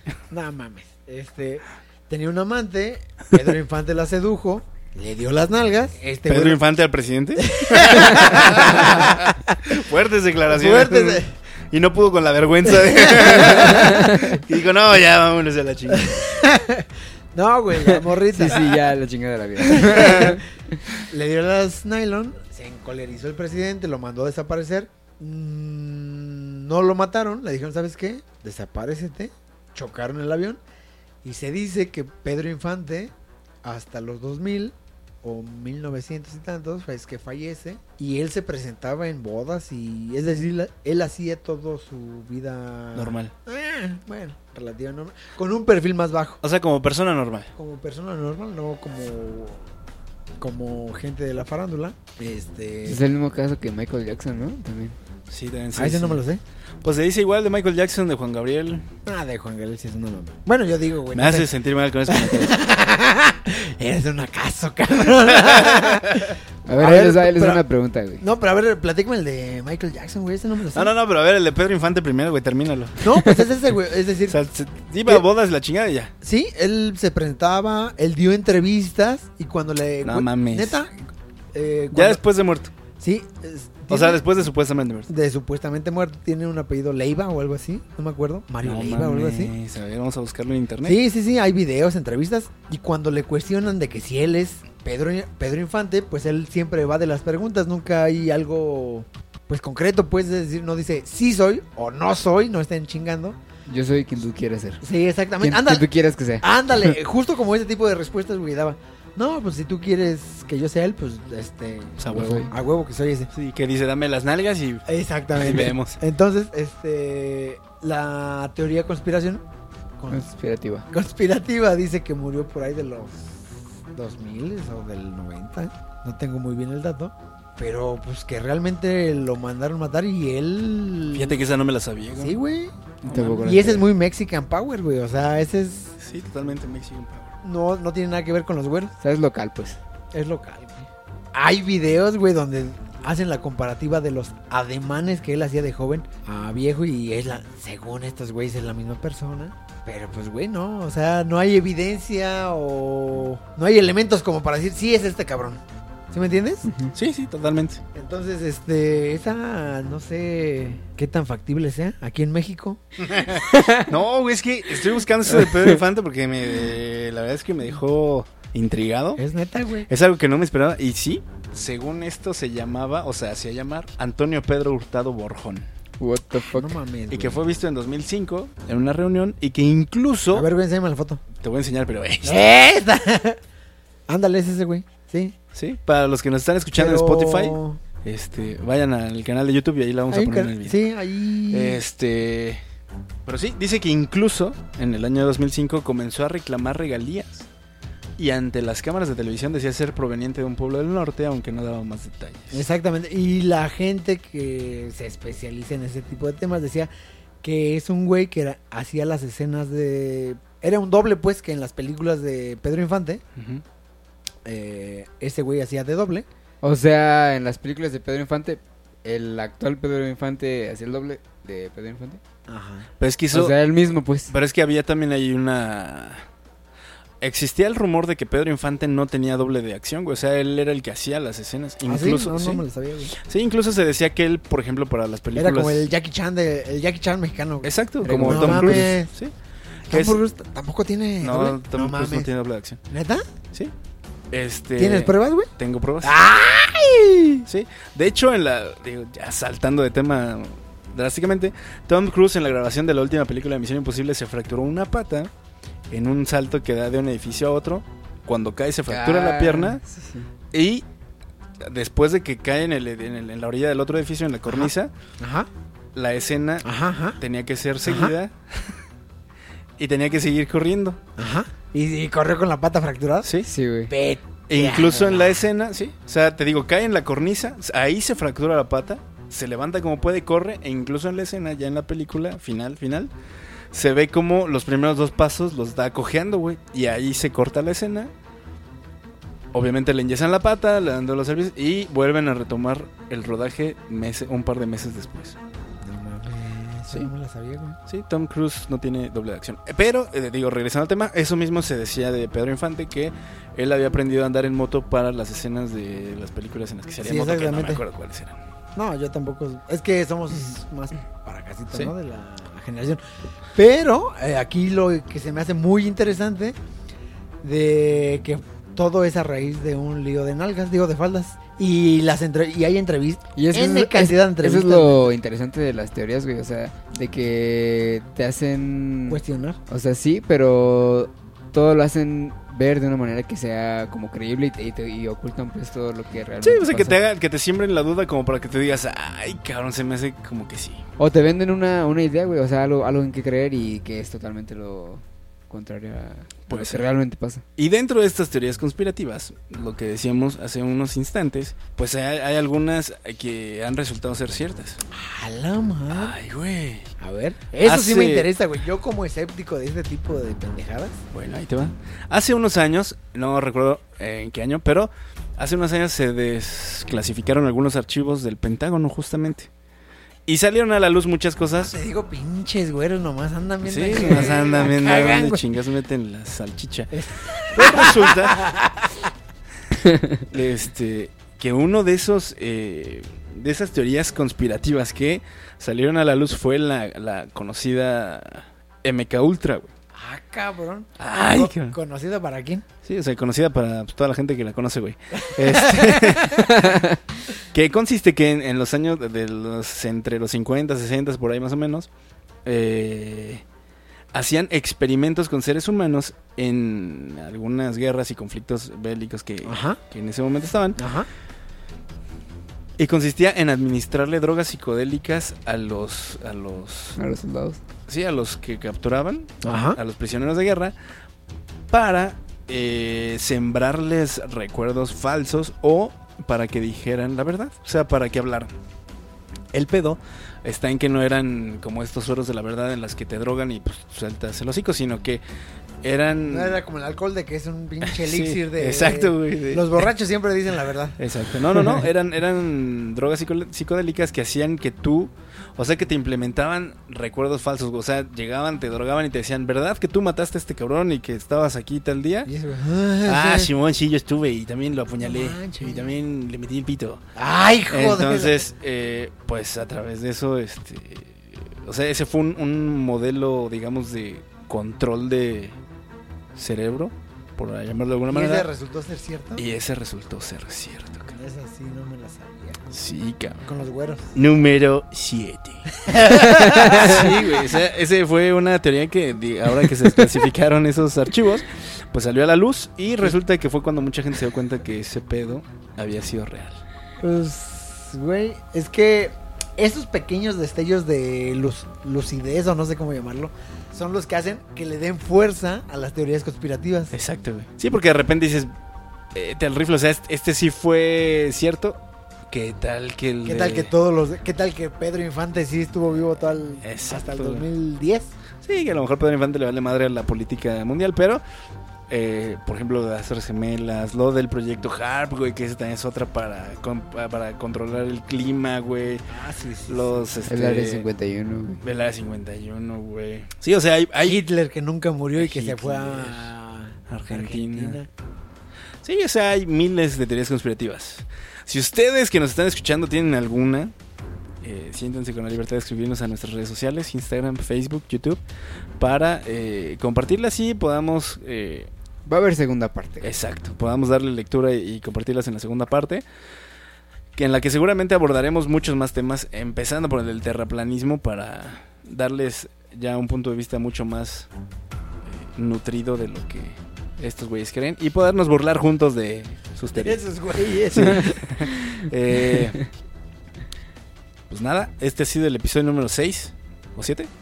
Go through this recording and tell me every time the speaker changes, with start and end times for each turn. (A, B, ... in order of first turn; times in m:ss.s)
0:00.3-0:06.6 A
0:06.3-0:16.4 B
0:07.4-0:09.8 A
0:10.4-0:11.3 A
0:12.8-0:14.1 A
0:13.7-0:14.4 C
0:15.9-0:18.8 A
0:17.8-0:20.7 C
0:19.6-0:20.4 A
0:21.0-0:30.6 A
0:31.2-0:33.1 A
0:33.6-0:46.4 A
0:42.9-0:43.3 B
0:46.4-0:47.5 B
0:47.6-0:49.6 A
0:50.4-0:53.0 A
0:52.8-0:55.0 C
0:55.3-0:56.2 B
0:55.8-0:56.4 A
0:56.8-0:58.9 B
0:59.0-1:01.5 A
1:01.1-1:02.5 B
1:02.1-1:07.6 A
1:05.4-1:06.3 B
1:06.6-1:08.2 C
1:08.2-1:10.9 A
1:10.7-1:13.2 B
1:13.0-1:14.4 A
1:14.3-1:16.1 B
1:16.2-1:20.9 A
1:20.0-1:20.8 B
1:21.5-1:22.2 A
1:21.9-1:22.7 B
1:23.0-1:24.2 A
1:23.9-1:25.1 B
1:25.1-1:29.5 A
1:28.6-1:31.0 B
1:30.8-1:43.4 A
1:43.6-1:44.8 C
1:44.8-1:45.9 A
1:45.4-1:46.9 C
1:46.4-1:53.3 A
1:52.0-1:52.5 B
1:52.1-1:52.5 C
1:53.3-1:56.0 B
1:54.9-1:59.4 A
2:00.1-2:00.8 C
2:00.9-2:11.4 A
2:11.1-2:12.4 B
2:12.2-2:16.0 A
2:13.0-2:13.8 B
2:13.0-2:13.8 C
2:16.0-2:17.3 B
2:17.4-2:18.9 A
2:19.0-2:19.8 C
2:20.1-2:36.7 A
2:36.6-2:36.9 C
2:36.9-2:37.8 B
2:37.9-2:42.8 A
2:43.0-2:49.2 B
2:43.5-2:43.9 C
2:49.2-2:49.9 A
2:49.9-2:55.7 B
2:56.0-2:56.7 C
2:56.4-2:57.4 A
2:57.1-3:00.5 B
3:00.3-3:01.2 A
3:01.4-3:02.4 B
3:02.2-3:03.4 A
3:04.1-3:05.3 A
3:05.5-3:10.8 B
3:06.8-3:07.8 A
3:10.1-3:11.8 A
3:11.5-3:12.6 B
3:13.2-3:17.5 B
3:18.2-3:22.6 B
3:22.5-3:26.9 A
3:27.4-3:33.2 A
3:33.4-3:33.6 B
3:34.4-3:36.2 A
3:36.6-3:42.2 C
3:42.5-3:42.9 A
3:43.0-3:43.6 B
3:43.3-3:44.3 C
3:44.3-3:46.2 B
3:47.2-3:55.8 B
3:51.8-3:53.1 A
3:55.4-3:59.1 A
3:57.6-3:59.3 B
3:58.0-3:58.9 C
3:59.9-4:00.2 B
3:59.9-4:02.3 A
4:01.2-4:02.8 B
4:02.9-4:03.2 A
4:04.3-4:06.2 B
4:04.8-4:05.5 A
4:06.0-4:07.4 A
4:07.4-4:15.3 B
4:15.9-4:19.8 B
4:18.9-4:20.3 C
4:20.5-4:20.8 B
4:21.6-4:24.9 B
4:24.5-4:25.5 A
4:25.9-4:26.7 B
4:26.6-4:27.2 A
4:27.2-4:28.8 B
4:27.8-4:28.1 A
4:29.8-4:31.0 B
4:31.2-4:33.3 A
4:33.2-4:33.5 B
4:33.4-4:33.9 C
4:33.9-4:35.4 A
4:34.5-4:43.1 B
4:43.7-4:48.1 B
4:49.5-4:55.4 B
4:55.8-4:57.8 A
4:57.9-5:08.4 B
5:07.0-5:07.8 A
5:08.7-5:13.0 A
5:13.5-5:16.6 A
5:17.4-5:25.1 A
5:23.4-5:37.0 C
5:29.1-5:29.6 A
5:36.4-5:40.8 B
5:41.0-5:47.4 C
5:46.5-5:46.8 B
5:47.6-5:54.8 B
5:54.9-5:56.2 A
5:55.9-5:56.9 B
5:57.0-6:01.0 A
5:57.6-5:58.3 B
6:01.1-6:09.5 B
6:10.2-6:11.7 B
6:11.6-6:15.4 A
6:13.6-6:17.0 B
6:16.9-6:18.9 A
6:17.5-6:18.6 B
6:19.8-6:20.2 C
6:20.3-6:29.7 B
6:29.9-6:32.6 A
6:31.0-6:31.8 B
6:32.8-6:36.8 B
6:35.2-6:36.5 A
6:37.4-6:41.9 B
6:42.4-6:43.4 B
6:44.1-6:50.8 B
6:49.4-6:49.8 A
6:50.8-6:51.1 A
6:52.8-6:57.0 B
6:57.0-6:57.6 C
6:57.9-7:00.7 B
6:59.4-6:59.8 A
7:01.7-7:08.5 B
7:09.5-7:15.2 B
7:15.8-7:16.6 B
7:16.3-7:21.0 A
7:17.8-7:19.8 B
7:21.0-7:32.3 B
7:32.2-7:33.5 A
7:33.0-7:37.0 B
7:35.0-7:36.0 A
7:37.2-7:38.4 A
7:37.7-7:45.6 B
7:46.3-7:48.5 B
7:48.1-7:49.4 A
7:49.4-7:51.1 B
7:51.1-7:52.6 A
7:52.7-7:53.4 B
7:53.4-7:54.1 A
7:54.1-8:06.6 B
7:55.8-7:57.5 A
8:07.0-8:16.9 A
8:16.9-8:18.5 B
8:19.1-8:21.8 B
8:22.3-8:23.7 B
8:23.2-8:28.1 A
8:26.6-8:27.4 B
8:28.4-8:31.2 B
8:31.9-8:39.0 B
8:39.1-8:40.3 A
8:39.7-8:40.9 B
8:40.3-8:41.6 C
8:41.6-8:44.2 B
8:44.0-8:47.9 A
8:45.2-8:46.3 B
8:46.9-8:47.8 B
8:48.8-8:53.7 B
8:54.4-8:58.2 B
8:58.8-9:01.7 B
9:02.0-9:03.1 C
9:03.0-9:06.0 B
9:07.1-9:14.3 B
9:15.1-9:20.0 B
9:19.7-9:21.2 A
9:20.6-9:22.6 B
9:21.0-9:22.5 C
9:24.3-9:27.1 B